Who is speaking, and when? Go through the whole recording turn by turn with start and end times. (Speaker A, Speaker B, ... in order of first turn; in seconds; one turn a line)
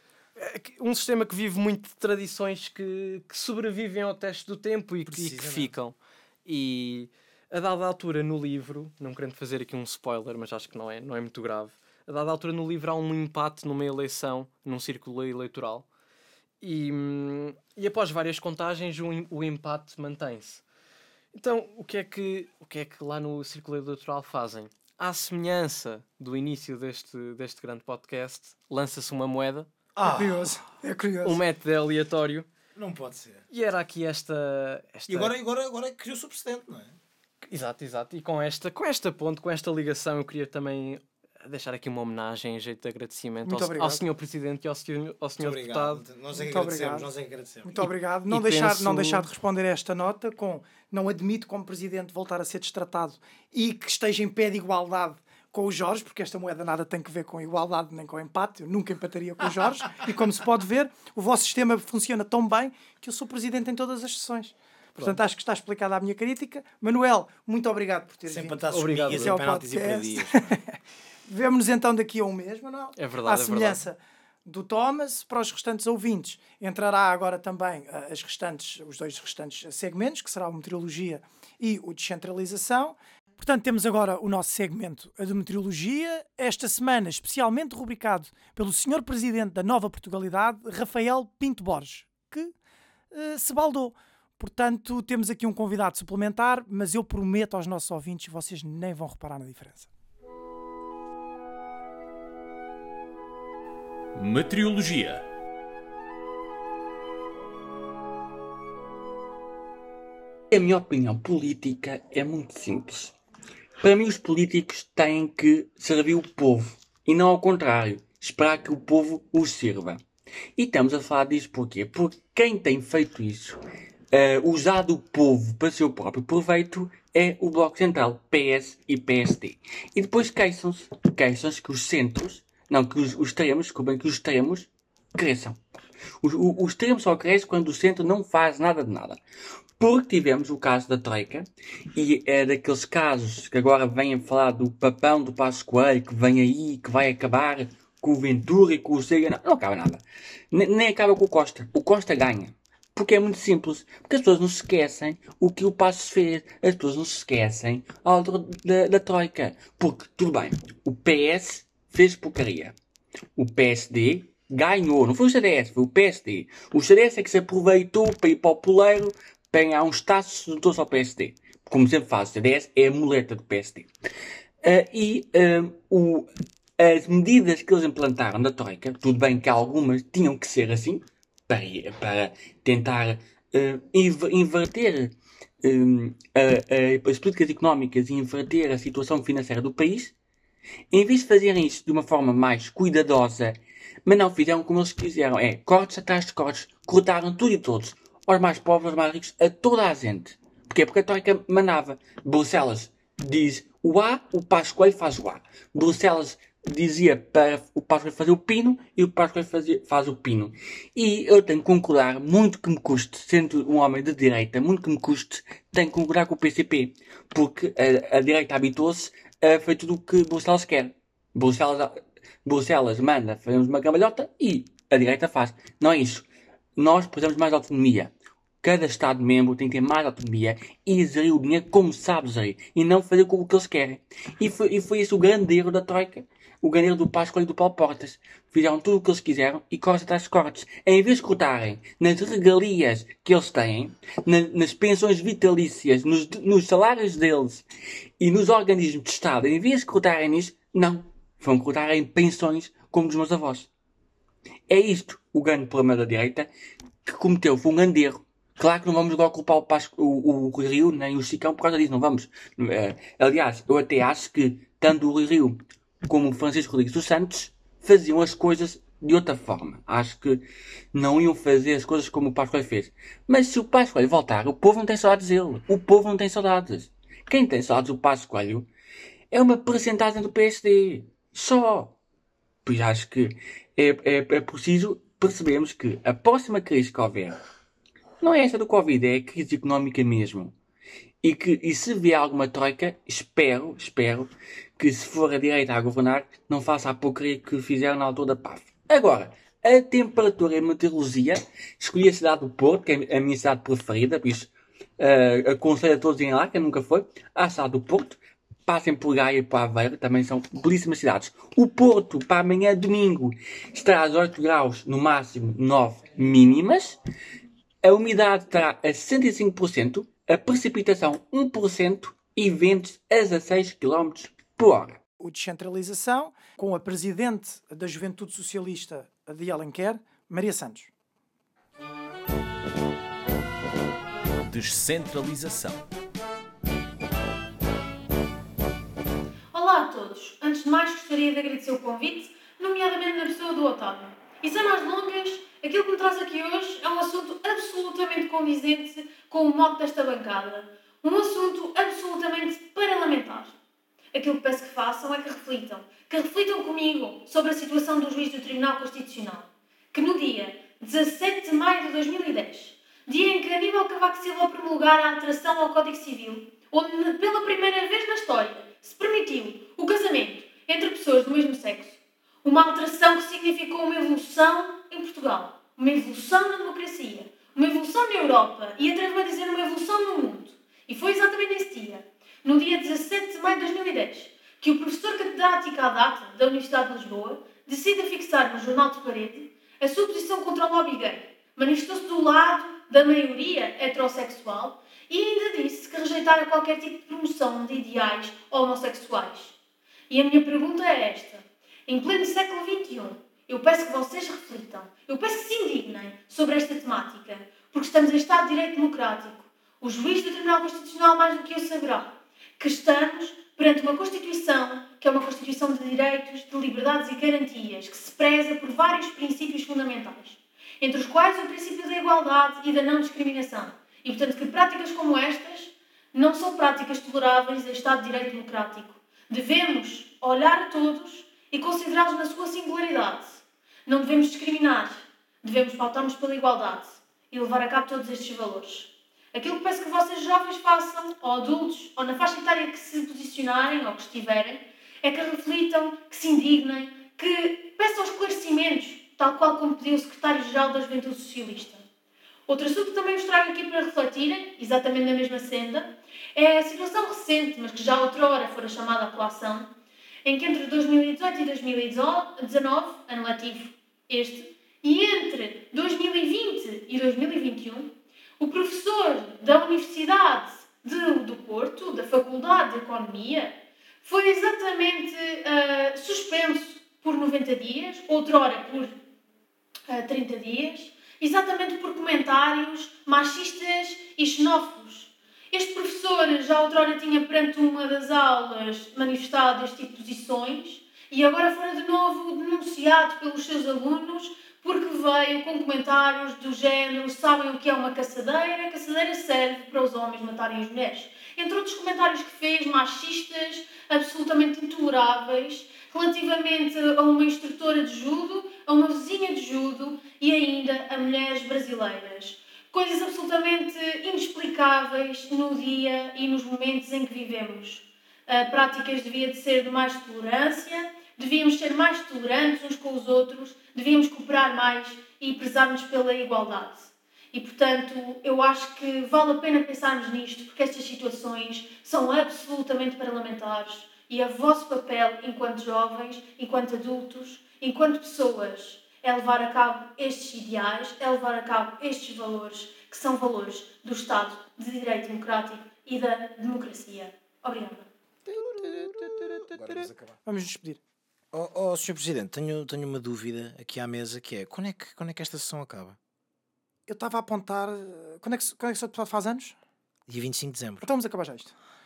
Speaker A: 0.4-15.9
Speaker B: 5.1-5.7
Speaker A: 16.6-20.6
Speaker A: 21.3-29.7
Speaker B: 30.0-30.5
Speaker C: 30.0-31.4
Speaker A: 31.2-32.5
Speaker B: 32.8-33.4
Speaker A: 33.5-35.3
Speaker B: 35.1-37.0
Speaker A: 37.4-46.0
Speaker C: 43.4-44.0
Speaker B: 45.4-47.8
Speaker C: 46.3-47.1
Speaker C: 47.6-70.8
Speaker A: 48.3-49.3
Speaker B: 68.3-70.6
Speaker A: 68.7-69.4
Speaker C: 71.3-92.5
Speaker A: 73.0-73.8
Speaker C: 93.1-99.9
Speaker D: 104.2-105.2
Speaker E: 110.5-113.2
Speaker E: 113.8-120.0
Speaker E: 120.6-123.6
Speaker E: 124.1-135.6
Speaker E: 136.2-139.2
Speaker E: 139.8-162.8
Speaker E: 163.4-173.9
Speaker E: 174.6-190.1
Speaker E: 190.9-226.3
Speaker E: 226.8-228.1
Speaker E: 228.6-247.6
Speaker E: 248.2-253.7
Speaker E: 254.7-256.5
Speaker E: 257.1-270.4
Speaker E: 270.9-278.7
Speaker E: 279.3-282.0
Speaker E: 282.6-287.4
Speaker E: 288.2-290.5
Speaker E: 291.2-317.0
Speaker E: 317.8-325.0
Speaker C: 325.2-330.9
Speaker D: 334.5-335.9
Speaker F: 339.5-353.5
Speaker F: 354.1-399.6
Speaker F: 400.1-451.8
Speaker F: 452.5-459.7
Speaker F: 460.2-478.9
Speaker F: 479.9-547.9
Speaker C: 548.3-550.8
Speaker B: 548.3-550.1
Speaker B: 551.3-556.0
Speaker C: 556.9-559.6
Speaker B: 560.1-560.9
Speaker C: 560.8-561.5